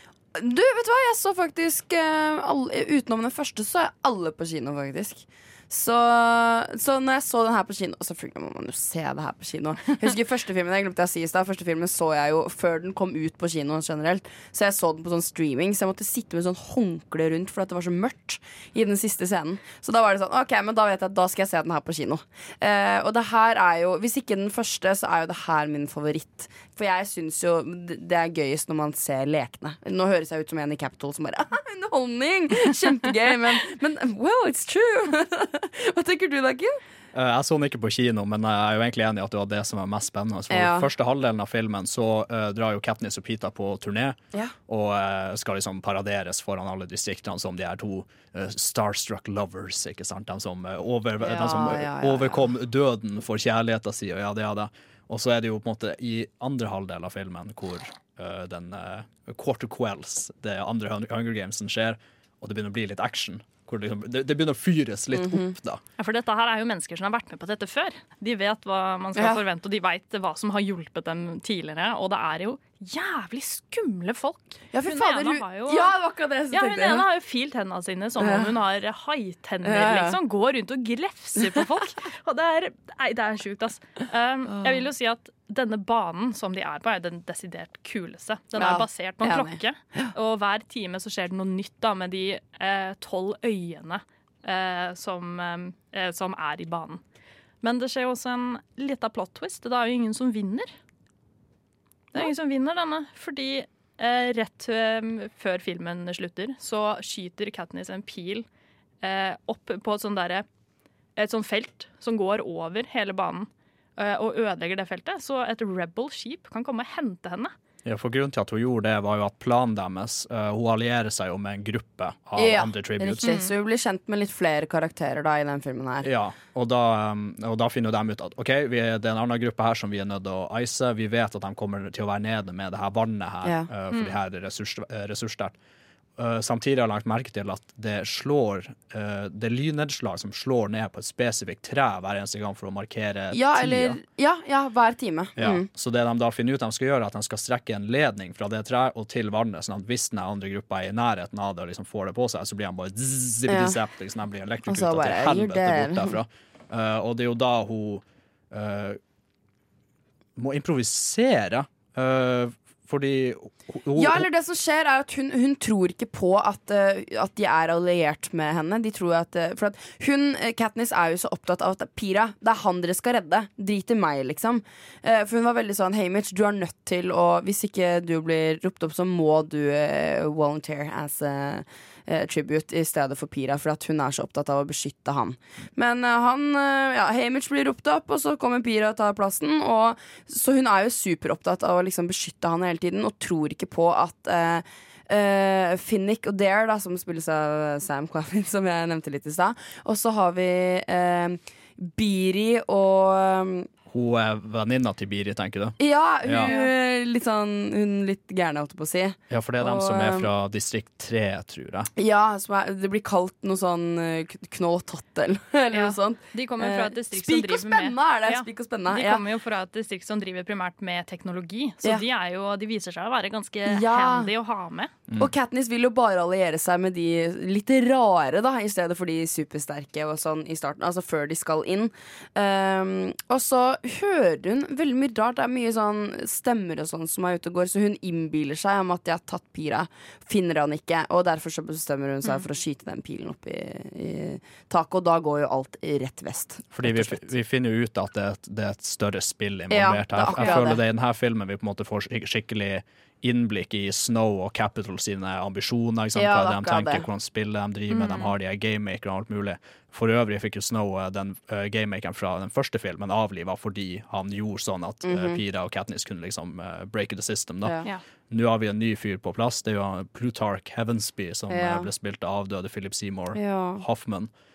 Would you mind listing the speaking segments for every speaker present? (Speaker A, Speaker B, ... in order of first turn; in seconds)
Speaker A: 0.3-36.8, 40.5-40.9, 51.2-52.5, 65.1-65.5, 74.7-77.1, 78.2-78.5, 79.6-80.2, 84.5-84.8, 88.5-90.1, 122.3-126.1, 133.4-133.7, 143.3-145.7, 153.5-153.8, 154.7-156.2, 163.9-203.7, 205.8-210.3, 211.9-219.2, 223.7-224.3, 225.2-247.2, 249.7-250.8, 256.1-257.0, 265.0-265.4, 271.5-271.9, 273.3-273.8
Speaker B: 37.1-65.8, 117.8-123.3, 126.0-135.6, 136.2-144.0, 145.4-159.0, 160.4-164.3, 203.9-206.5, 209.3-211.9, 246.7-267.8, 268.3-274.3
Speaker C: 66.0-75.9, 76.5-97.0, 97.6-100.7, 102.1-108.5, 109.0-110.5, 111.2-117.5, 123.2-123.5, 206.4-206.7, 215.7-224.9, 257.9-258.4